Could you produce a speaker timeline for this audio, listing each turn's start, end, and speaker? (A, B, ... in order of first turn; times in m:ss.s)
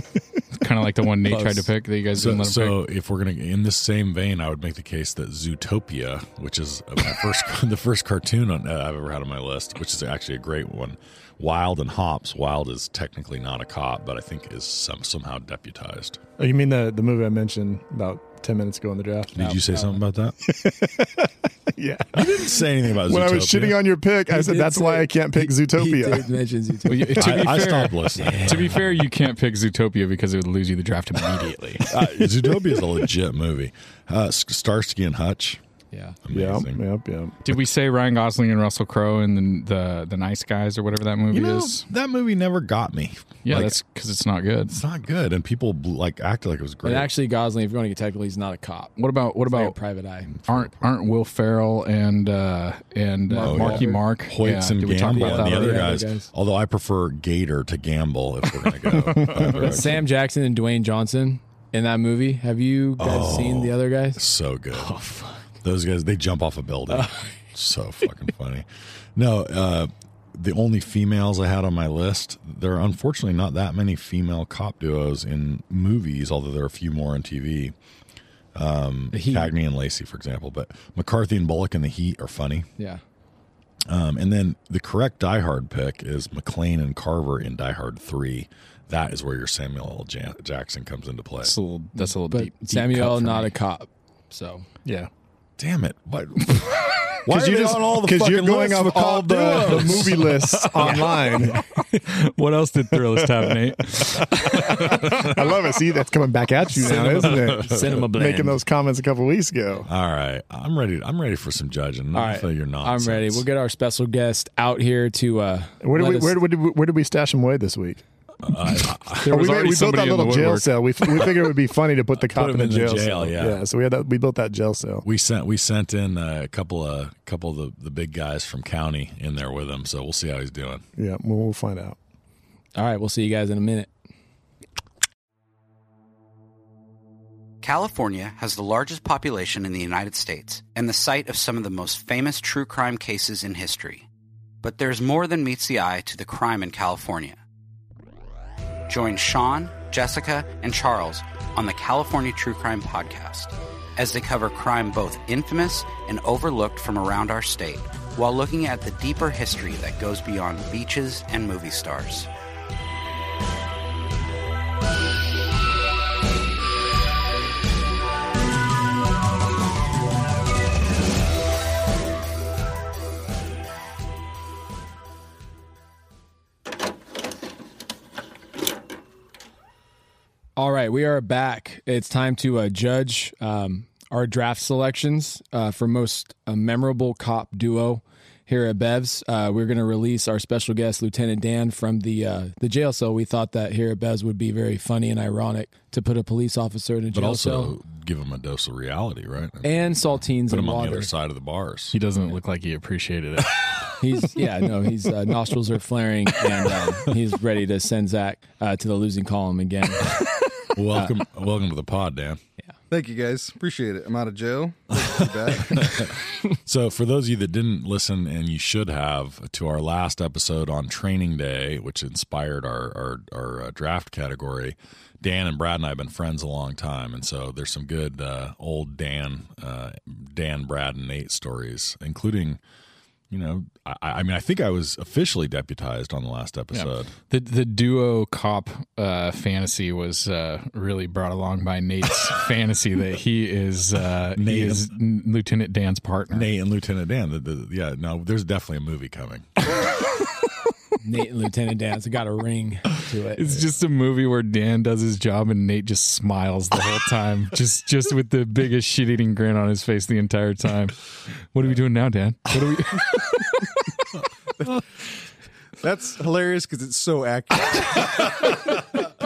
0:00.5-0:02.8 A
0:01.2-0:01.7 B
0:02.2-0:16.2 C
0:16.4-0:19.4 D
0:19.3-0:20.4 C
0:19.4-0:20.0 B
0:20.4-0:26.3 D
0:22.1-0:23.8 C
0:24.3-0:27.4 B
0:26.8-0:31.9 A
0:27.2-0:28.9 C
0:28.2-0:28.7 B
0:31.9-0:35.6 C
0:35.9-0:36.2 B
0:36.2-0:36.8 C
0:36.3-0:37.3 D
0:37.4-0:41.8 A
0:41.3-0:43.8 C
0:43.4-0:44.8 A
0:44.7-0:47.1 C
0:46.8-0:48.9 B
0:49.0-0:49.8 A
0:49.5-0:50.3 B
0:50.4-0:55.9 A
0:53.3-0:54.0 B
0:53.4-1:00.1 C
0:55.1-0:56.3 B
0:59.1-0:59.7 D
0:59.2-1:04.2 B
1:03.0-1:05.0 C
1:04.7-1:05.4 B
1:05.6-1:17.7 C
1:06.9-1:07.3 B
1:18.5-1:22.7 C
1:19.1-1:19.5 B
1:23.9-1:31.5 C
1:31.4-1:33.5 A
1:32.0-1:34.7 B
1:34.8-1:35.1 D
1:35.6-1:40.5 C
1:37.2-1:41.6 D
1:40.5-1:45.4 A
1:43.0-1:49.9 D
1:46.8-1:48.6 B
1:47.1-1:48.1 C
1:49.9-1:53.4 C
1:52.1-1:56.4 B
1:55.8-1:58.0 D
1:58.4-1:59.4 C
1:59.2-2:00.7 A
1:59.2-2:05.0 D
2:02.2-2:03.6 C
2:05.0-2:10.8 C
2:11.0-2:12.0 D
2:12.7-2:13.9 B
2:17.6-2:24.1 E
2:24.6-2:27.4 E
2:28.9-2:42.3 E
3:00.6-3:17.8 B
3:17.1-3:22.0 C
3:19.6-3:21.1 B
3:21.9-3:23.6 A
3:24.0-3:30.3 B
3:30.7-3:32.4 C
3:32.9-3:36.2 F
3:34.9-3:52.6 C
3:53.3-3:57.1 C
3:56.7-4:06.5 A
4:04.4-4:04.9 C
4:06.3-4:09.4 C
4:11.0-4:13.6 B
4:13.4-4:21.0 A
4:21.5-4:23.7 A
4:25.8-4:28.3 F
4:28.1-4:28.8 C